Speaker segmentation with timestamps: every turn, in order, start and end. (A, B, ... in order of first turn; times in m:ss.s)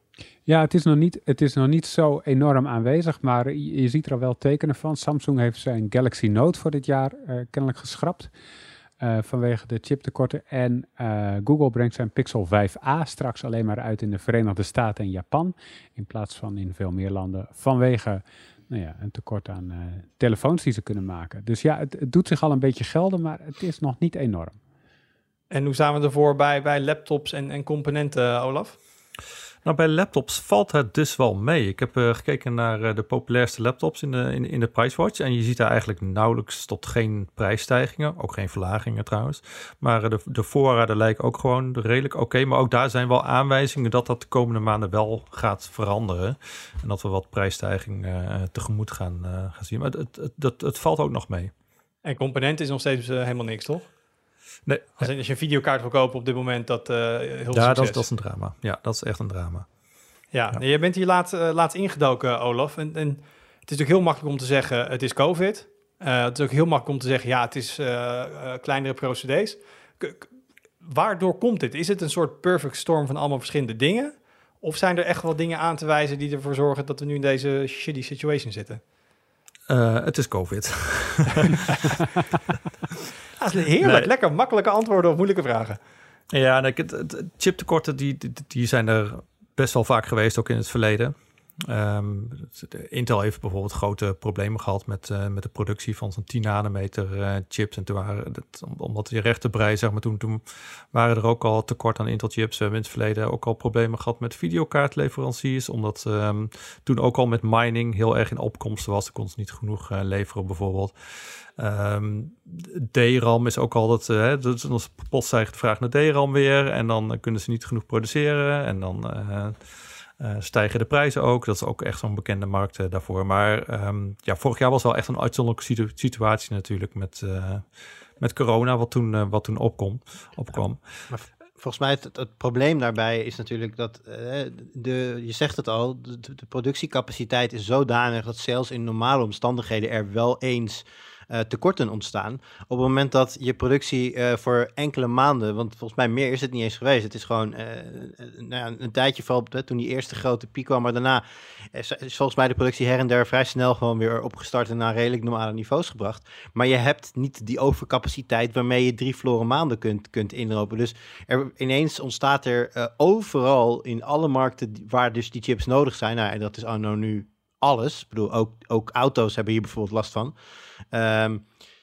0:00.5-0:08.3 A
0:09.0-0:24.6 A
0:25.5-0:28.8 B
0:29.6-0:51.5 C
0:52.0-0:53.9 B
0:54.6-0:55.1 C
0:55.0-0:58.0 B
0:57.5-0:59.7 C
1:00.3-1:10.3 B
1:10.8-1:18.8 B
1:19.7-1:21.8 C
1:23.4-1:25.8 B
1:23.8-1:24.1 C
1:26.3-1:50.9 C
1:51.6-1:59.6 C
2:00.2-2:07.7 C
2:08.2-2:10.8 C
2:11.1-2:50.3 D
2:50.9-2:51.4 D